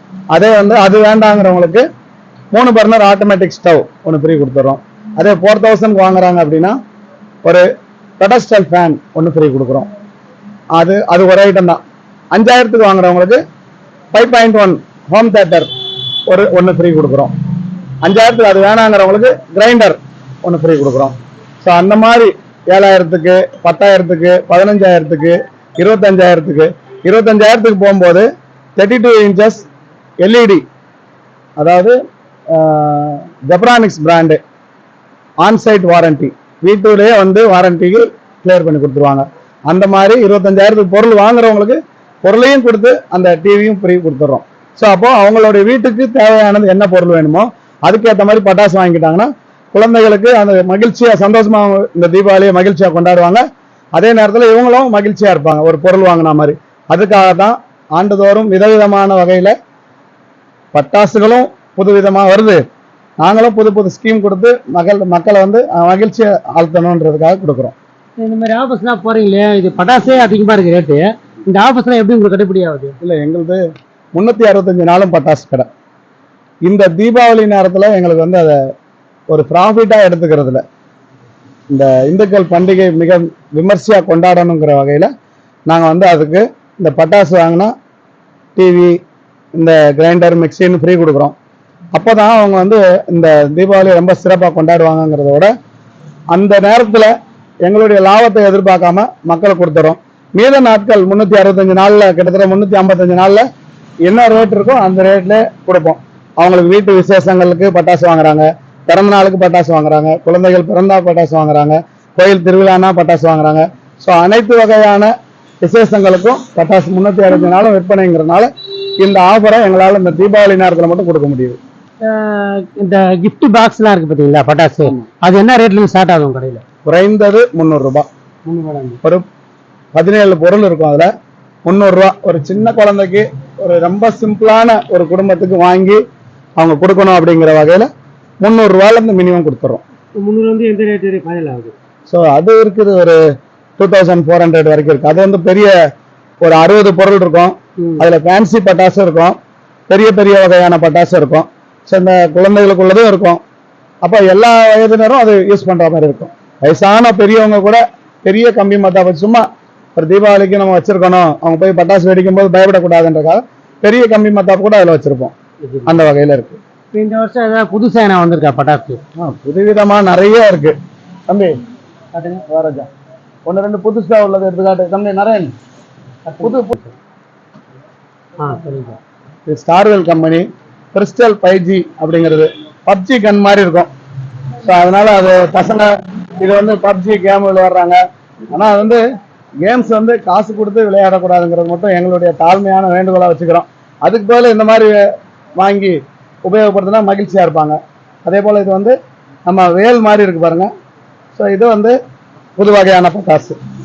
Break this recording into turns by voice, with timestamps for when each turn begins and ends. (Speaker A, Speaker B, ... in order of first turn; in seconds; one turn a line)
Speaker A: 0.3-1.9
Speaker A: 2.5-6.8
Speaker A: 8.2-9.9
Speaker A: 10.8-11.8
Speaker A: 12.3-13.4
Speaker A: 14.1-15.7
Speaker A: 16.3-17.3
Speaker A: 18.0-29.7
Speaker A: 30.2-30.6
Speaker A: 31.6-32.0
Speaker A: 32.5-34.4
Speaker A: 35.4-53.4
Speaker A: 54.0-59.5
Speaker A: 60.7-62.6
Speaker A: 63.2-67.8
Speaker B: 68.2-73.0
Speaker A: 73.0-73.6
Speaker A: 74.2-75.7
Speaker A: 76.7-78.6
Speaker A: 79.3-80.6
Speaker A: 81.7-85.1
Speaker A: 85.7-87.7
Speaker A: 88.6-89.0
Speaker A: 89.6-91.3
Speaker A: 91.9-95.5
Speaker A: 96.3-97.1
Speaker A: 97.7-103.5
Speaker A: 104.0-118.5
Speaker A: 119.0-121.6
Speaker B: 122.0-126.6
Speaker A: 126.9-128.1
Speaker B: 128.5-129.0
Speaker A: 129.9-131.1
Speaker A: 131.7-136.0
Speaker A: 136.6-137.9
Speaker A: 138.4-139.8
Speaker B: 140.2-141.7
Speaker A: 142.1-143.2
Speaker A: 143.8-145.7
Speaker A: 146.4-149.4
Speaker B: 147.8-148.1
Speaker A: 149.9-153.4
Speaker A: 154.0-159.4
Speaker A: 160.0-165.3
Speaker B: 165.7-165.9
Speaker A: 165.9-166.6
Speaker B: 166.9-169.0
Speaker A: 169.2-170.8
Speaker A: 171.3-171.6
Speaker B: 172.2-172.4
Speaker A: 172.5-172.9
Speaker A: 173.5-175.5
Speaker B: 176.3-177.0
Speaker A: 176.4-176.7
Speaker B: 178.4-179.0
Speaker A: 179.5-183.9
Speaker A: 184.6-188.0
Speaker A: 188.5-189.0
Speaker A: 189.6-195.1
Speaker A: 195.6-199.0
Speaker A: 199.5-200.7
Speaker A: 201.3-202.0
Speaker A: 202.6-203.6